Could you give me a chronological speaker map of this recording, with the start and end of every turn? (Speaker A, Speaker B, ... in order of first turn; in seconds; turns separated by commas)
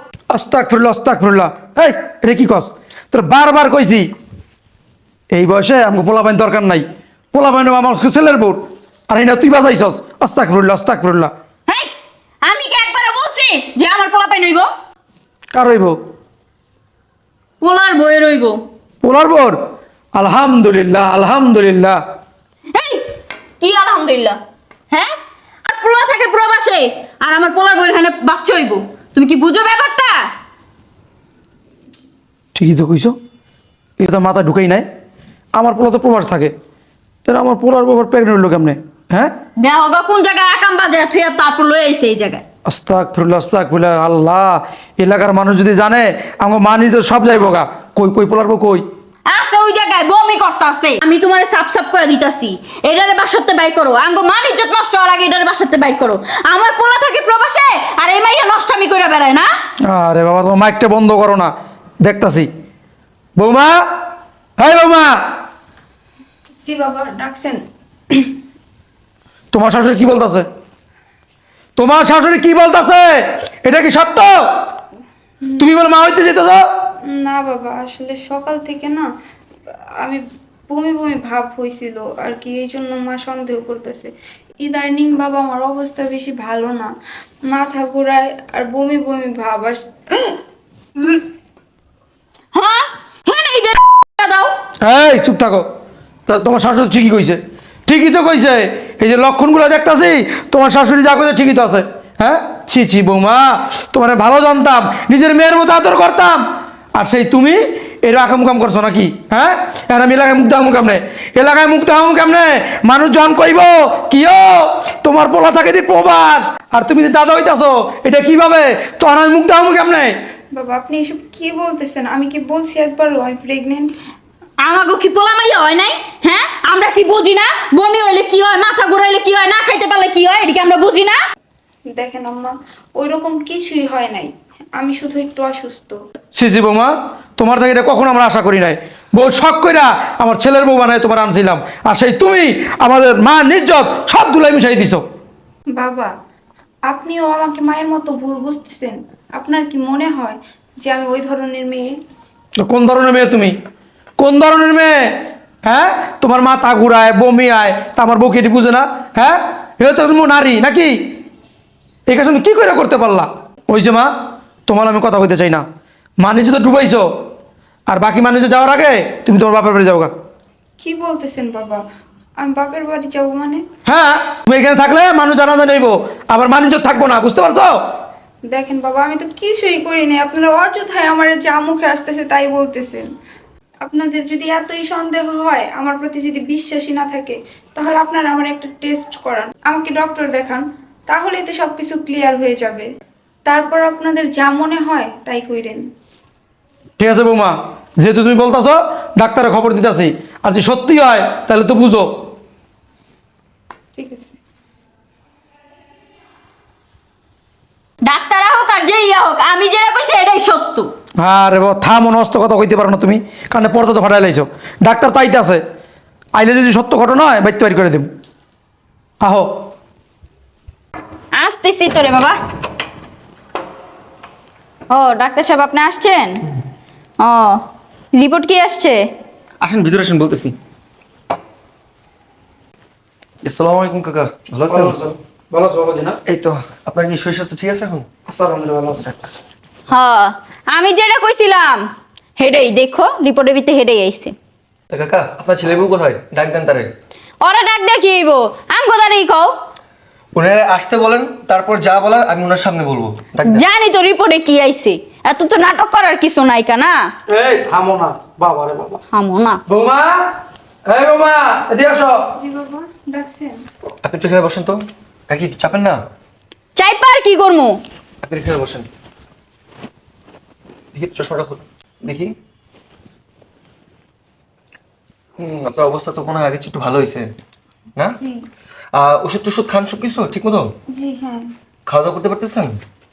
Speaker A: 0.3-4.1, Speaker A: 5.3-11.3, Speaker B: 12.4-14.7, Speaker A: 15.5-16.0, Speaker B: 17.6-18.6, Speaker A: 19.0-19.6, Speaker A: 20.1-22.0, Speaker B: 22.7-23.1, Speaker B: 23.6-24.4, Speaker B: 25.7-30.3, Speaker A: 32.5-33.2, Speaker A: 34.0-34.9, Speaker A: 35.5-36.5, Speaker A: 37.2-39.3, Speaker B: 39.6-42.4, Speaker A: 42.7-48.8, Speaker B: 49.3-59.5, Speaker A: 59.9-62.5, Speaker A: 63.4-63.8, Speaker A: 64.6-65.2, Speaker C: 66.6-68.3, Speaker A: 69.5-70.5, Speaker A: 71.8-74.4, Speaker A: 75.6-76.7, Speaker C: 77.1-79.1, Speaker C: 80.0-86.9, Speaker C: 87.5-90.4, Speaker B: 92.5-94.5, Speaker A: 94.8-95.7, Speaker A: 96.3-106.4, Speaker A: 107.0-120.2, Speaker C: 120.5-123.9, Speaker B: 124.6-131.2, Speaker C: 131.9-136.0, Speaker A: 136.3-145.0, Speaker C: 145.8-146.1, Speaker C: 146.9-151.9, Speaker A: 152.6-153.6, Speaker A: 154.2-161.2, Speaker A: 162.1-164.1, Speaker A: 164.7-165.6, Speaker A: 166.2-167.1, Speaker A: 167.9-170.1, Speaker C: 170.8-171.8, Speaker C: 172.4-173.6, Speaker A: 173.9-177.8, Speaker C: 178.5-183.1, Speaker C: 183.8-192.9, Speaker C: 193.5-195.8, Speaker A: 197.0-202.1, Speaker C: 204.0-204.4, Speaker B: 208.0-210.9, Speaker A: 211.2-215.6, Speaker A: 216.3-218.1, Speaker A: 219.2-219.5, Speaker B: 221.3-222.4, Speaker B: 224.9-226.4, Speaker B: 227.2-229.0, Speaker D: 229.6-230.6, Speaker D: 233.4-234.9, Speaker A: 234.7-236.2, Speaker D: 236.3-238.1, Speaker A: 238.3-239.2, Speaker B: 239.9-241.9, Speaker B: 242.4-244.3, Speaker D: 244.9-246.9, Speaker B: 247.4-249.5, Speaker D: 250.3-253.6, Speaker B: 253.5-257.1, Speaker A: 257.3-259.0, Speaker B: 259.1-259.6, Speaker A: 259.7-260.3, Speaker A: 260.9-262.2, Speaker C: 262.4-263.6, Speaker D: 264.0-266.0, Speaker B: 266.8-267.8, Speaker D: 268.2-268.9, Speaker D: 270.9-272.3, Speaker D: 275.4-277.3, Speaker D: 278.9-280.7, Speaker C: 280.9-281.4, Speaker D: 281.9-282.8